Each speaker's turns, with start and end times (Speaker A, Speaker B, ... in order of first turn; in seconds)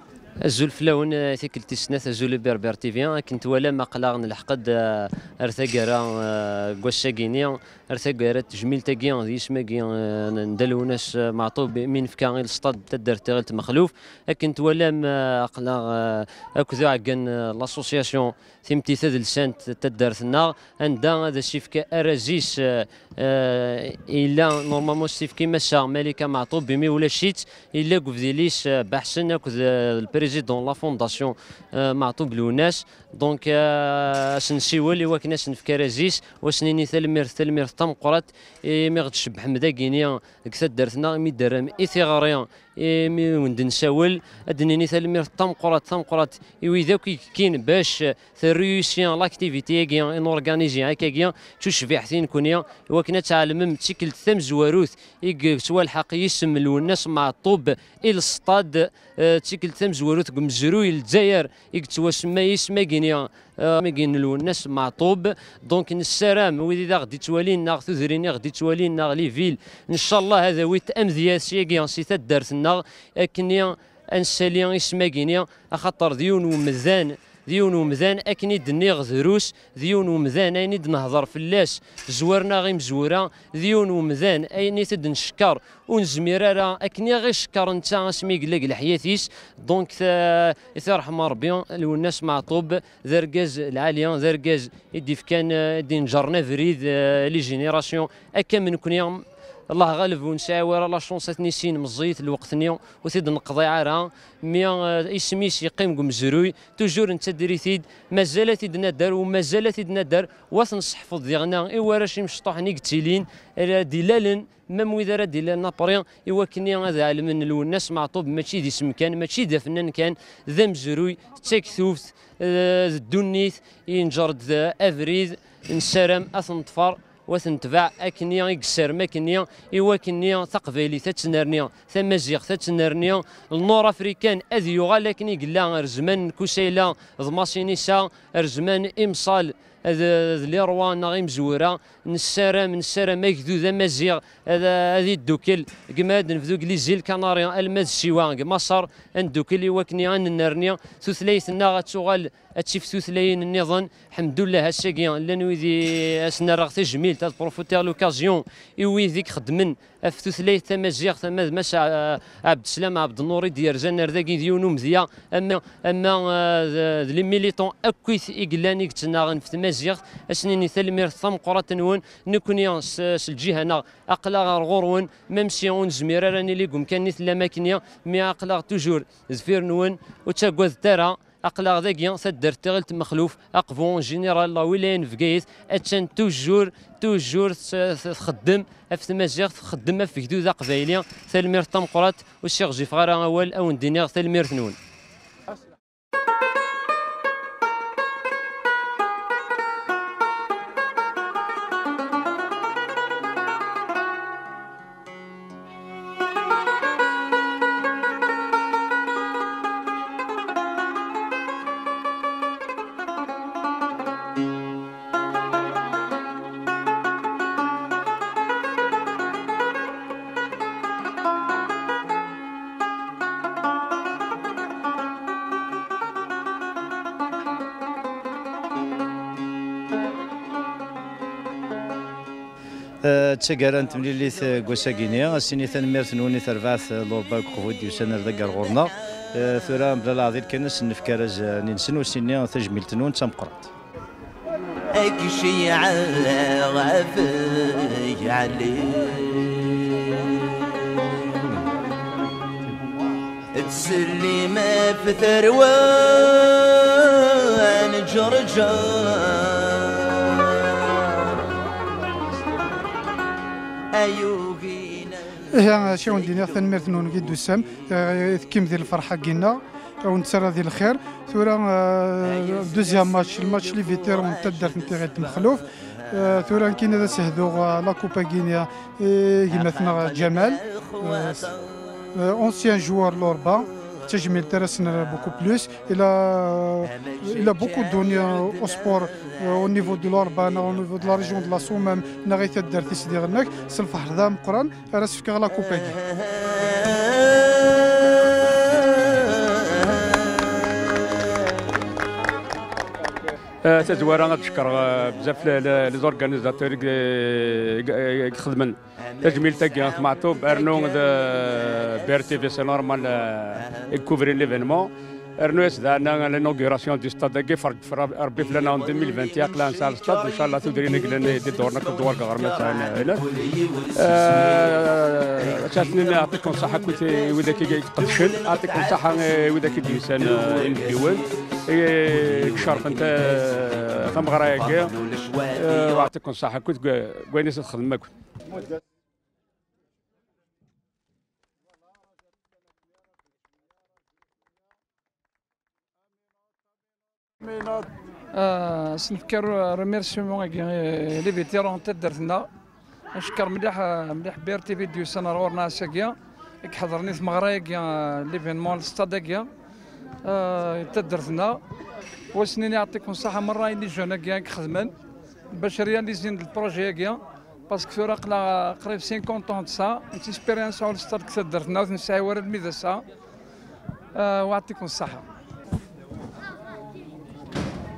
Speaker A: 0.4-194.8
Speaker B: 233.0-243.7
Speaker C: 244.9-250.4, 253.5-261.4, 263.9-267.8, 272.4-275.6, 279.5-281.7, 286.9-288.8, 296.2-300.9, 309.1-312.8, 313.6-313.9, 318.3-331.3, 332.1-336.1
Speaker D: 265.5-281.5, 282.1-296.0
Speaker E: 303.7-314.9, 315.4-323.3, 323.9-334.9, 335.6-338.1
Speaker F: 348.3-352.5, 353.1-359.5, 360.2-361.6, 362.3-364.9, 365.5-373.0, 374.1-375.2